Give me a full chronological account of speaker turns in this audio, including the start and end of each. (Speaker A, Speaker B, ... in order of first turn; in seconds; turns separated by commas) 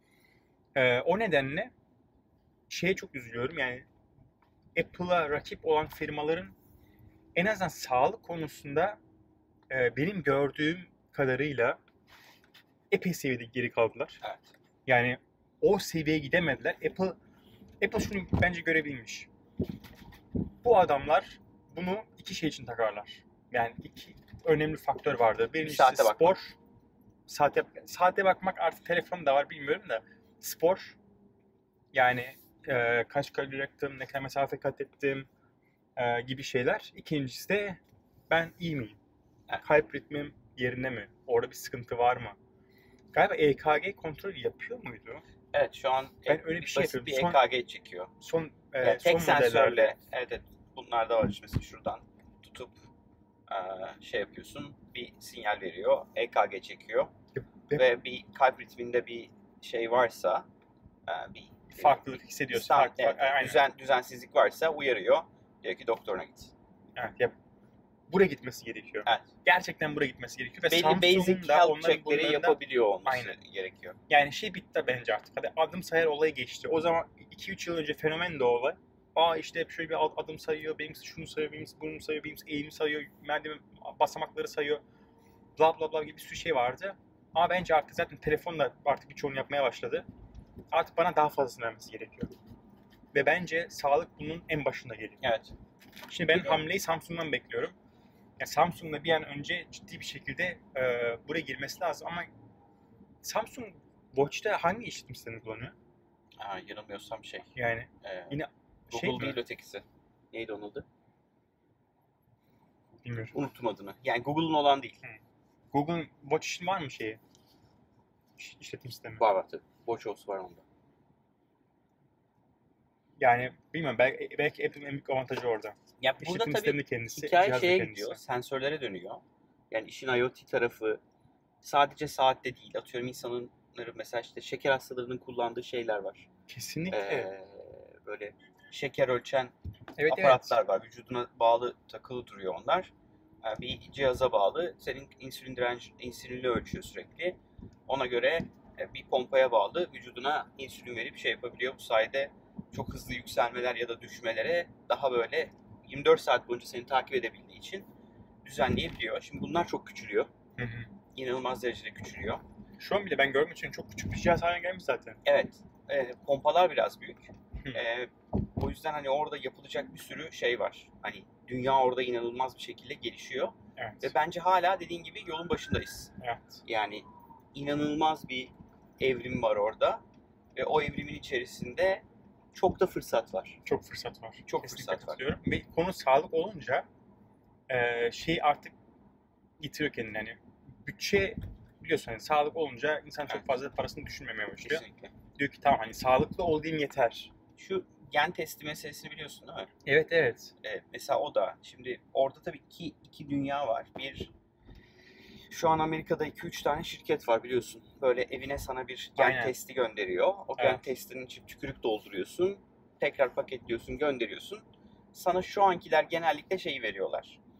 Speaker A: 0.7-1.7, Speaker A: 2.7-3.9, Speaker A: 4.7-6.5, Speaker A: 7.3-9.0, Speaker A: 9.7-11.8, Speaker A: 12.9-14.2, Speaker B: 14.2-14.5, Speaker A: 14.8-17.2, Speaker A: 17.8-19.3, Speaker A: 20.6-26.6, Speaker B: 25.6-26.4, Speaker A: 27.3-31.0, Speaker A: 31.9-35.3, Speaker A: 36.0-39.0, Speaker A: 39.6-42.4, Speaker A: 43.1-45.2, Speaker B: 45.5-48.1, Speaker A: 46.3-47.4, Speaker A: 48.2-49.9, Speaker B: 48.8-52.8, Speaker B: 53.5-57.1, Speaker A: 57.3-57.8, Speaker B: 57.7-60.5, Speaker B: 61.1-66.5, Speaker A: 61.8-63.6, Speaker A: 67.0-67.3, Speaker A: 68.1-73.3, Speaker B: 70.7-74.0, Speaker A: 74.1-84.8, Speaker A: 85.6-90.0, Speaker A: 90.7-92.3, Speaker A: 93.1-95.2, Speaker B: 95.2-95.5, Speaker A: 96.1-97.7, Speaker B: 96.3-96.6, Speaker A: 98.4-102.3, Speaker A: 103.2-105.7, Speaker B: 106.4-108.4, Speaker A: 107.5-109.4, Speaker B: 108.9-110.8, Speaker A: 113.0-113.3, Speaker B: 113.3-115.0, Speaker A: 115.7-117.2, Speaker A: 118.4-119.2, Speaker B: 119.2-120.6, Speaker A: 123.2-128.2, Speaker B: 126.0-131.0, Speaker B: 131.6-136.3, Speaker A: 136.5-137.3, Speaker B: 136.9-142.9, Speaker A: 140.0-140.6, Speaker B: 143.4-157.9, Speaker B: 158.4-160.3, Speaker A: 160.6-160.9, Speaker B: 161.1-162.4, Speaker A: 162.8-165.2, Speaker B: 165.2-176.1, Speaker A: 173.8-174.1, Speaker A: 176.2-176.6, Speaker B: 176.6-180.0, Speaker B: 180.6-183.6, Speaker A: 183.7-186.8, Speaker B: 184.4-185.2, Speaker A: 187.7-188.7, Speaker A: 189.6-194.8, Speaker B: 194.6-195.1, Speaker A: 195.4-197.3, Speaker B: 197.6-199.7, Speaker A: 199.8-200.5, Speaker B: 200.6-204.3, Speaker B: 205.5-217.4, Speaker A: 209.2-209.5, Speaker A: 210.6-210.8